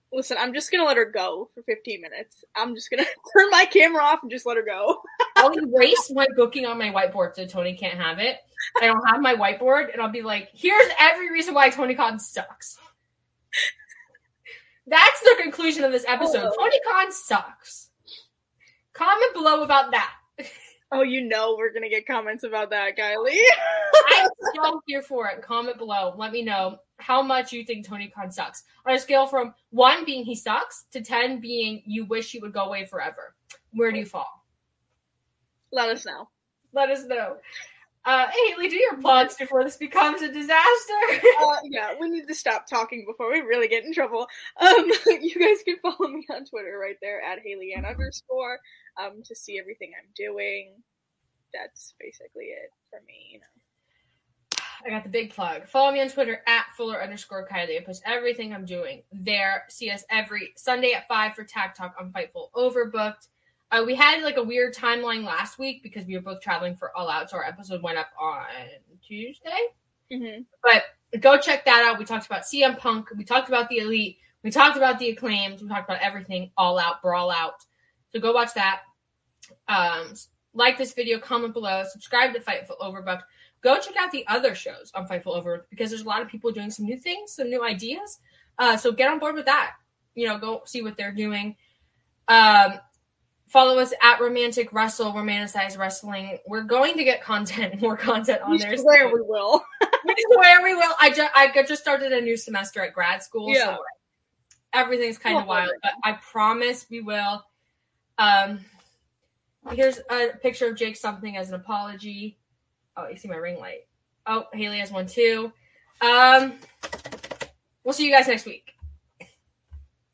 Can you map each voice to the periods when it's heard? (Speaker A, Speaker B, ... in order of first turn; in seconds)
Speaker A: 0.1-5.5, 16.2-16.7, 20.9-24.5, 35.7-36.3, 41.4-50.8, 51.5-53.5, 70.1-70.5, 98.5-100.0, 103.5-103.8, 105.3-105.8
Speaker B: 5.4-12.8, 14.9-17.9, 18.9-20.5, 24.0-34.4, 36.7-37.4, 38.0-41.4, 54.8-69.7, 70.6-78.8, 79.7-91.6, 92.3-92.8, 93.5-99.2, 100.0-103.9, 104.7-107.5, 108.2-108.7, 109.7-112.4, 113.0-116.6, 117.8-118.8